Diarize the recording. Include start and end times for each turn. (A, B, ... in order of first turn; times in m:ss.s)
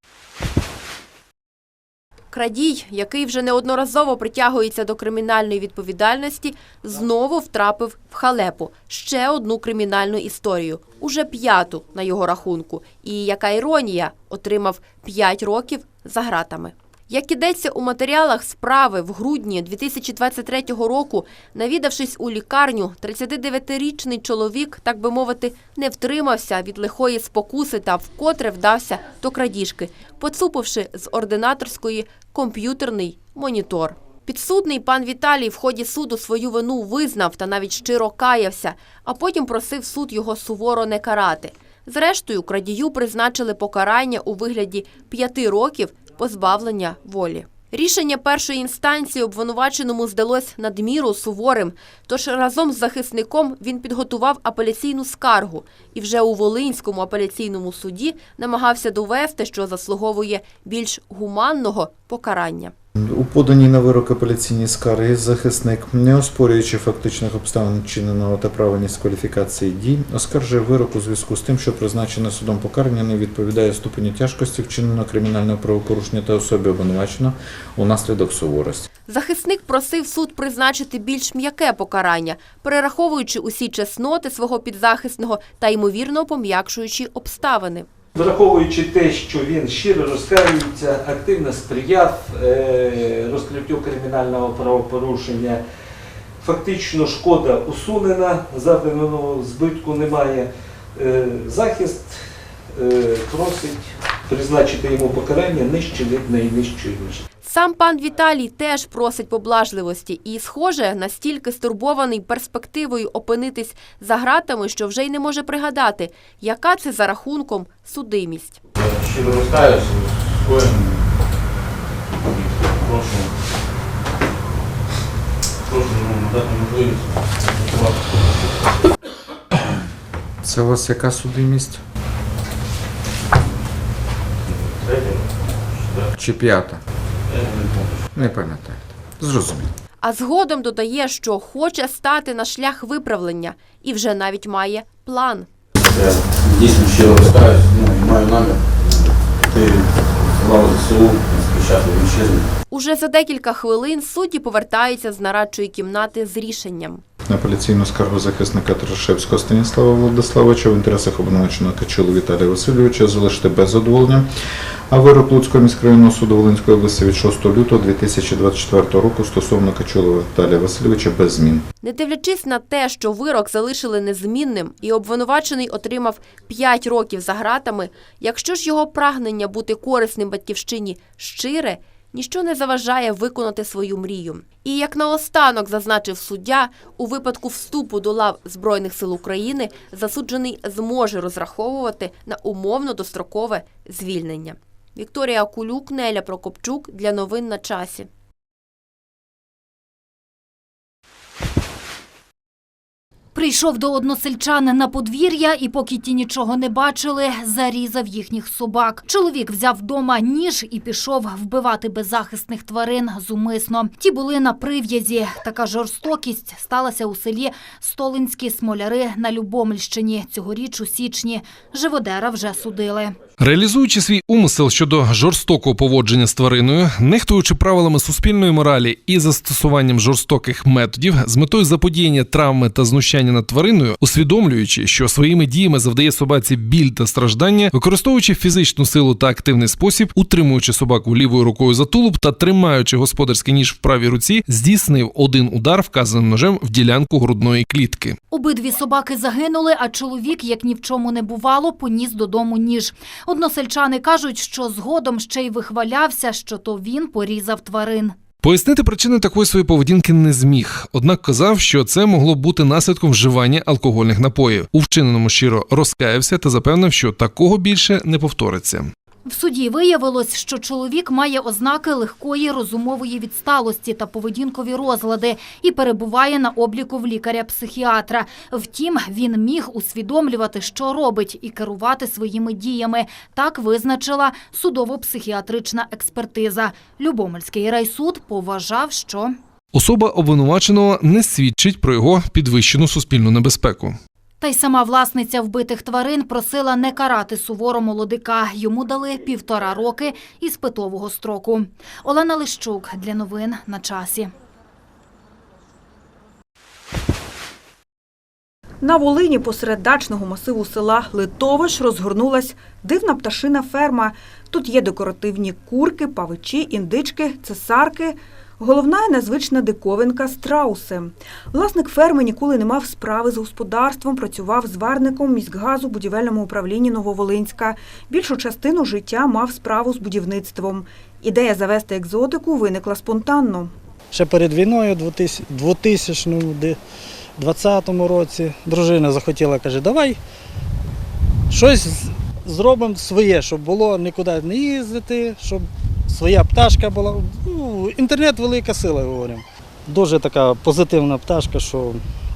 0:02.3-1:02.7 A
1:03.0-1:18.9 B
1:19.1-1:27.9 A
1:28.2-1:35.6 C
1:36.4-1:42.2 C
1:42.7-1:47.2 C
1:47.4-1:58.6 A
1:58.8-2:00.9 D
2:02.8-2:03.3 D
2:05.7-2:07.0 D
2:07.6-2:07.9 D
2:10.4-2:11.8 B
2:16.2-2:16.8 B
2:17.4-2:17.8 D
2:18.1-2:19.7 B
2:20.0-2:25.5 A
2:25.8-2:28.6 D
2:29.5-2:32.4 D
2:32.7-2:37.0 A
2:37.3-2:44.3 B
2:44.9-2:51.6 B
2:51.8-3:18.1 A
3:23.3-3:43.2 E
3:43.4-4:08.2 F
4:08.3-4:18.2 E
4:18.4-4:28.9 F
4:29.3-4:49.4 E
4:49.7-4:54.0 F
4:54.4-5:04.3 E
5:08.8-5:33.7 G
5:34.1-5:36.8 H
5:37.4-5:40.2 H
5:41.5-5:52.0 H